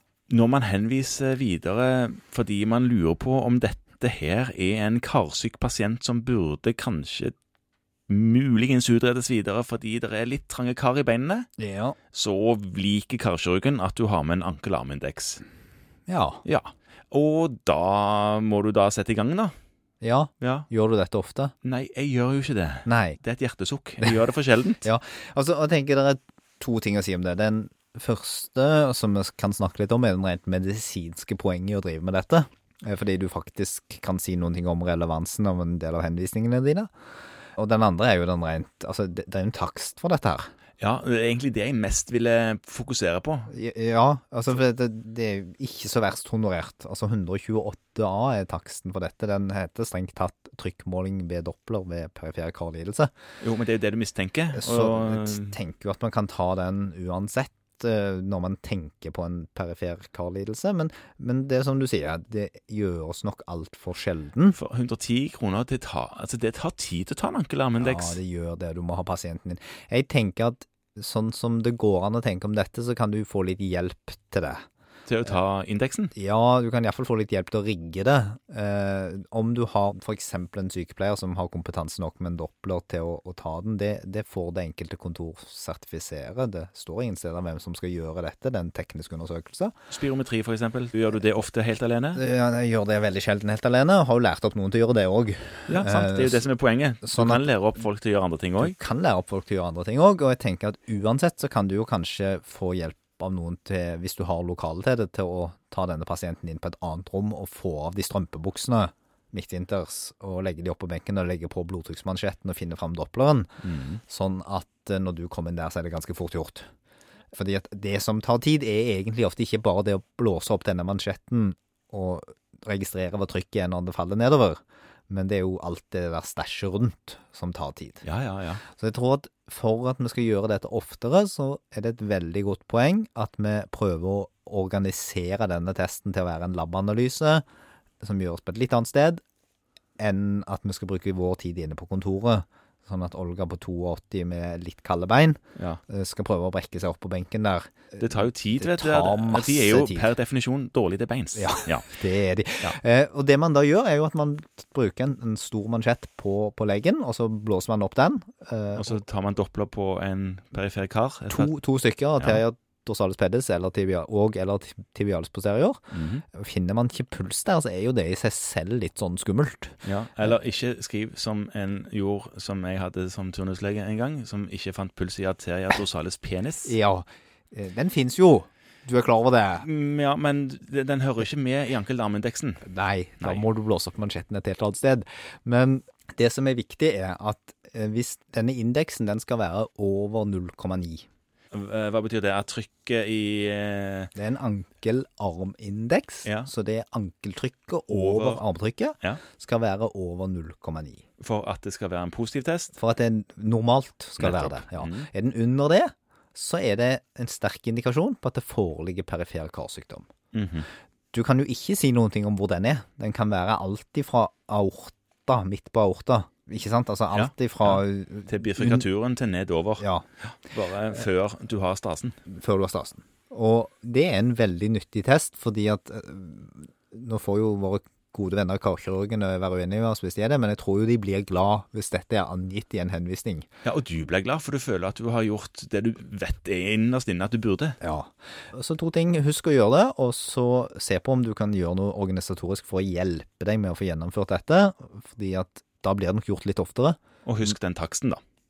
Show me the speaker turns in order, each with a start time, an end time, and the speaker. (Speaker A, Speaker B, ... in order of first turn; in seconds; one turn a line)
Speaker A: 0.3-7.3
Speaker A: 8.1-11.5
Speaker B: 11.6-12.0
Speaker A: 12.1-15.4
Speaker B: 16.1-16.4
Speaker A: 16.4-19.5
Speaker B: 20.0-21.5
Speaker A: 20.4-20.7
Speaker A: 21.6-24.9
Speaker B: 22.9-23.2
Speaker B: 24.8-36.9
Speaker B: 37.6-40.5
Speaker A: 40.8-43.5
Speaker B: 43.5-53.1
Speaker A: 53.4-55.6
Speaker B: 54.5-64.6
Speaker A: 64.5-68.2
Speaker B: 67.8-74.6
Speaker A: 75.1-76.1
Speaker B: 76.1-89.7
Speaker A: 89.9-92.2
Speaker B: 92.2-96.5
Speaker A: 95.7-98.8
Speaker B: 97.0-97.5
Speaker B: 98.6-116.7
Speaker A: 113.6-114.0
Speaker B: 117.3-128.1
Speaker A: 128.0-128.6
Speaker B: 128.7-137.4
Speaker B: 138.0-139.2
Speaker B: 140.0-150.1
Speaker A: 148.0-151.9
Speaker B: 151.3-159.0
Speaker A: 158.7-161.5
Speaker B: 161.3-170.3
Speaker A: 165.9-166.2
Speaker A: 169.8-176.8
Speaker B: 176.6-179.7
Speaker A: 179.6-182.7
Speaker B: 182.6-191.1
Speaker A: 183.2-183.4
Speaker A: 191.5-194.1
Speaker B: 194.2-201.0
Speaker A: 196.2-196.5
Speaker A: 197.9-198.4
Speaker A: 201.2-202.7
Speaker B: 202.8-210.1
Speaker A: 204.2-205.1
Speaker A: 210.3-210.7
Speaker B: 211.1-218.9
Speaker A: 217.1-222.2
Speaker B: 219.8-220.1
Speaker B: 222.3-233.5
Speaker A: 233.6-237.8
Speaker B: 237.8-247.0
Speaker A: 247.2-248.2